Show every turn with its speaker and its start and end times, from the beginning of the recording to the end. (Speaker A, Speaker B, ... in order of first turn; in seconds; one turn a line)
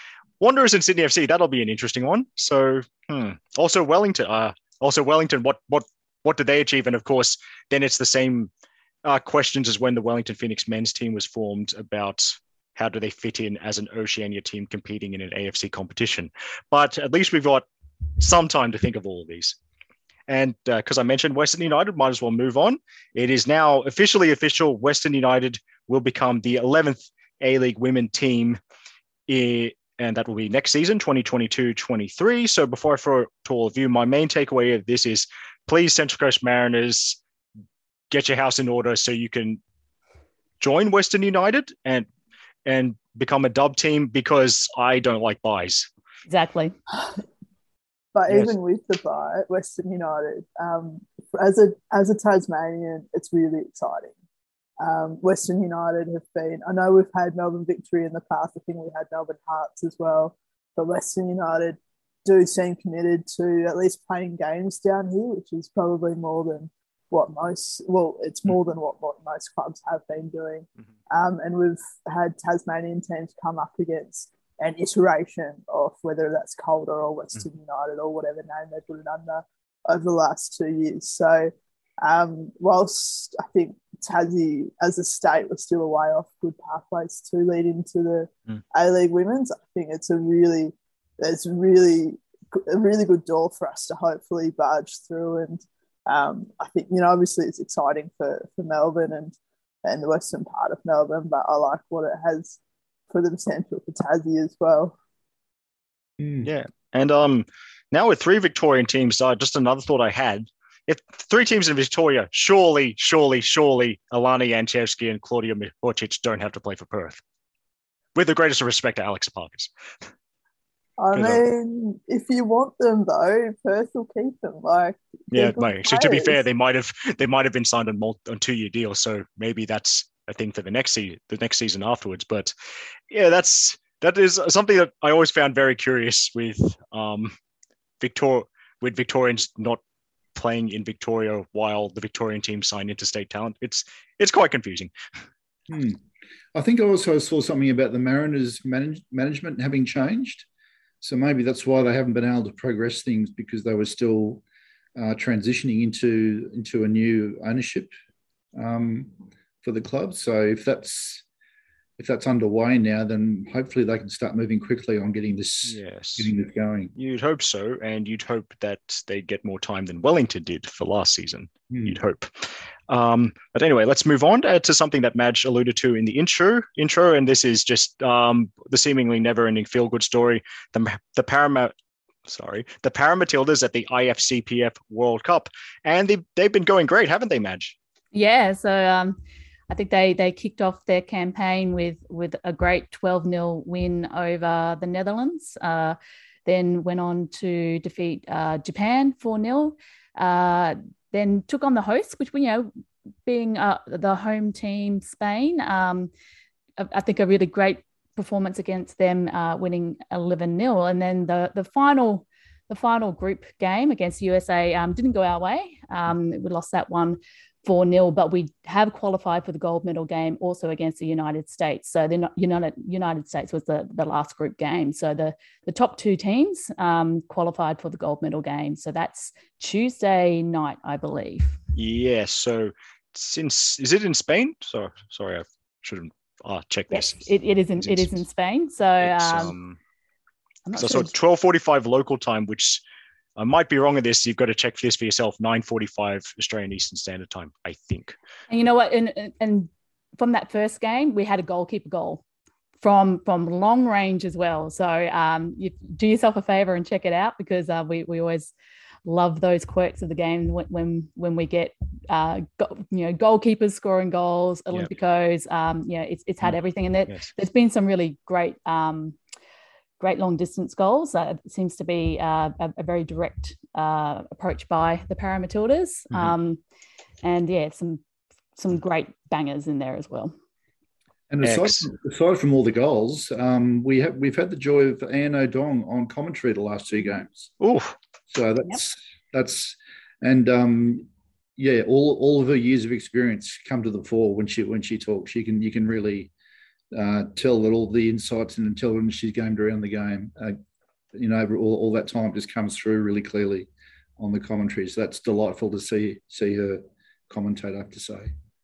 Speaker A: 0.4-8.5
Speaker A: 9.0-17.6
Speaker A: 18.2-19.6
Speaker A: 20.3-28.6
Speaker A: 29.3-37.2
Speaker A: 38.1-39.6
Speaker A: 40.6-42.1
Speaker A: 42.6-45.9
Speaker B: 46.3-46.7
Speaker C: 48.1-54.1
Speaker A: 48.3-48.5
Speaker C: 54.8-81.5
Speaker C: 82.0-102.6
Speaker C: 103.1-105.0
Speaker D: 106.2-106.5
Speaker A: 106.4-117.2
Speaker A: 118.1-119.7
Speaker C: 121.0-126.4
Speaker A: 121.1-121.4
Speaker A: 125.3-132.5
Speaker A: 133.1-137.3
Speaker A: 138.0-139.8
Speaker A: 140.3-144.9
Speaker D: 145.7-146.0
Speaker D: 146.6-150.5
Speaker D: 151.0-154.4
Speaker D: 155.0-157.9
Speaker D: 158.6-159.1
Speaker D: 159.6-161.2
Speaker D: 162.0-166.9
Speaker A: 165.7-166.3
Speaker A: 167.0-181.7
Speaker D: 171.7-172.0
Speaker A: 182.2-187.8
Speaker B: 188.1-189.2
Speaker B: 189.7-202.7
Speaker B: 203.2-206.1
Speaker B: 206.8-231.6
Speaker A: 231.8-237.3
Speaker B: 236.9-239.5
Speaker A: 237.8-238.1
Speaker A: 239.0-239.8
Speaker B: 240.7-241.1
Speaker A: 240.8-242.8
Speaker A: 243.4-248.2
Speaker B: 248.5-252.2
Speaker B: 252.8-258.5
Speaker B: 259.1-269.1
Speaker B: 270.0-276.6
Speaker B: 277.2-278.0
Speaker B: 278.6-280.3
Speaker D: 281.3-287.5
Speaker A: 281.4-281.9
Speaker A: 287.6-287.9
Speaker D: 288.3-291.1
Speaker D: 291.6-296.3
Speaker D: 296.9-300.6
Speaker D: 301.1-308.3